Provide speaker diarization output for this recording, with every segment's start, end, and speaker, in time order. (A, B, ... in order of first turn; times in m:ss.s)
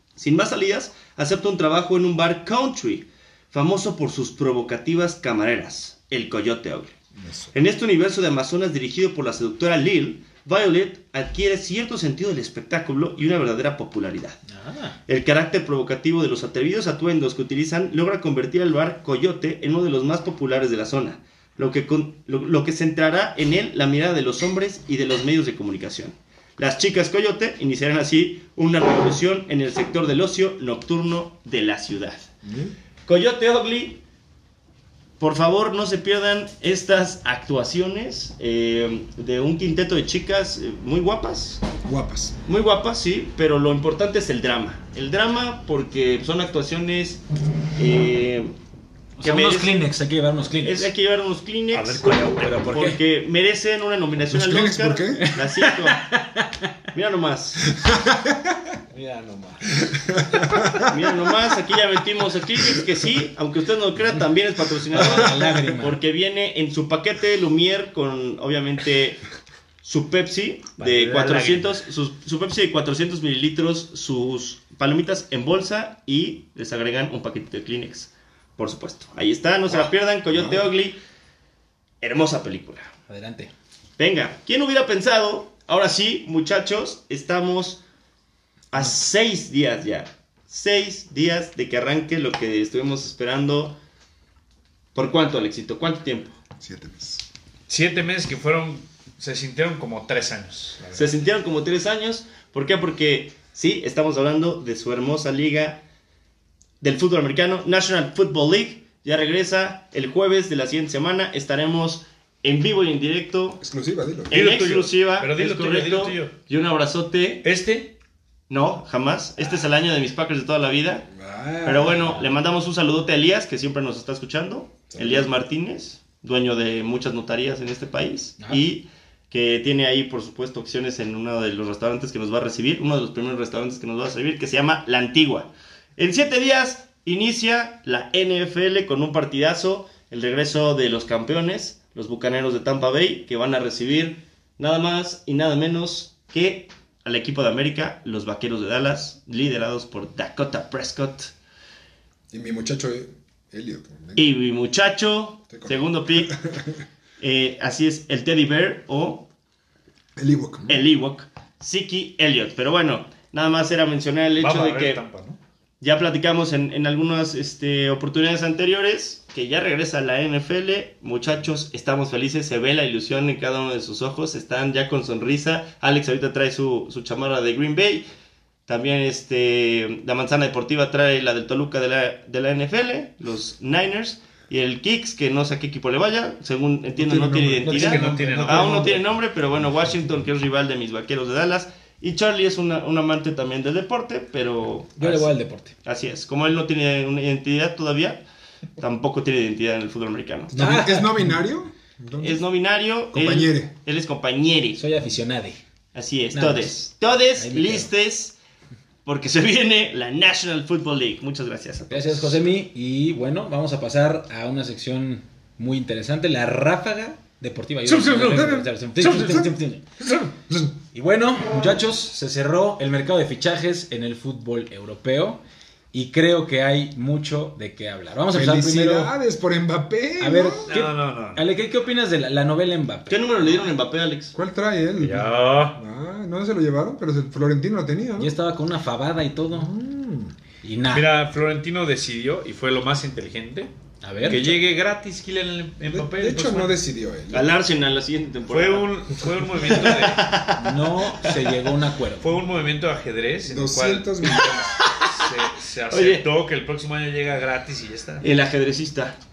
0:00.2-0:06.9 A
0:07.2-0:07.5 B
0:07.5-0:14.4 A
0:14.5-0:15.0 C
0:15.1-0:32.3 A
0:32.4-0:32.7 B
0:33.0-0:34.0 A
0:35.2-0:41.6 A
0:41.8-0:42.4 B
0:42.4-0:47.2 A
0:47.8-0:48.5 A
0:49.2-0:50.9 C
0:49.2-0:49.9 A
0:50.6-0:56.1 A
0:51.7-0:52.5 D
0:52.1-0:53.0 C
0:54.3-0:55.3 B
0:55.2-0:56.7 C
0:56.9-0:57.6 A
0:57.7-0:58.7 B
0:58.9-0:59.8 E
0:59.9-1:00.9 B
1:00.8-1:09.2 A
1:04.9-1:06.0 C
1:09.8-1:21.0 A
1:10.8-1:11.7 D
1:20.3-1:20.6 B
1:22.0-1:22.9 A
1:23.1-1:23.5 C
1:24.0-1:27.8 A
1:28.7-1:33.8 A
1:34.9-1:36.3 A
1:36.6-1:37.2 B
1:37.7-1:41.1 D
1:40.9-1:45.8 A
1:46.8-1:53.6 A
1:53.6-1:54.4 B
1:54.3-1:56.3 D
1:54.3-1:57.4 A
1:57.4-1:57.9 D
1:58.5-2:01.1 A
2:01.1-2:02.2 B
2:01.6-2:31.3 A
2:01.9-2:02.2 C
2:04.9-2:05.3 B
2:32.3-2:34.2 B
2:34.2-2:36.4 A
2:35.5-2:36.8 B
2:37.2-2:39.3 A
2:40.2-2:40.8 B
2:40.7-2:45.0 A
2:44.4-2:45.4 D
2:45.8-2:58.0 A
2:58.7-3:18.2 A
3:07.0-3:07.7 B
3:07.6-3:09.0 E
3:07.7-3:09.0 D
3:15.0-3:15.7 C
3:18.8-3:20.5 A
3:20.5-3:22.4 B
3:20.5-3:21.4 C
3:22.2-3:24.8 A
3:23.1-3:23.7 B
3:24.8-3:25.6 C
3:25.9-3:28.4 A
3:26.3-3:26.7 C
3:27.3-3:27.9 C
3:29.0-3:32.4 A
3:31.9-3:39.8 C
3:37.8-3:40.7 B
3:40.9-3:45.4 C
3:45.9-3:49.1 C
3:48.3-3:50.7 B
3:50.2-3:53.5 C
3:50.7-3:51.4 D
3:53.1-3:54.4 A
3:54.3-3:58.3 B
3:55.0-3:55.8 D
3:58.2-3:59.7 C
3:59.5-4:00.3 B
4:00.6-4:01.1 C
4:00.9-4:03.7 D
4:04.0-4:04.6 C
4:04.2-4:06.8 D
4:05.9-4:07.5 B
4:07.3-4:11.7 A
4:08.5-4:10.4 D
4:10.6-4:12.4 C
4:12.2-4:18.2 D
4:13.4-4:14.7 B
4:14.4-4:15.3 A
4:15.9-4:16.2 A
4:18.2-4:19.2 A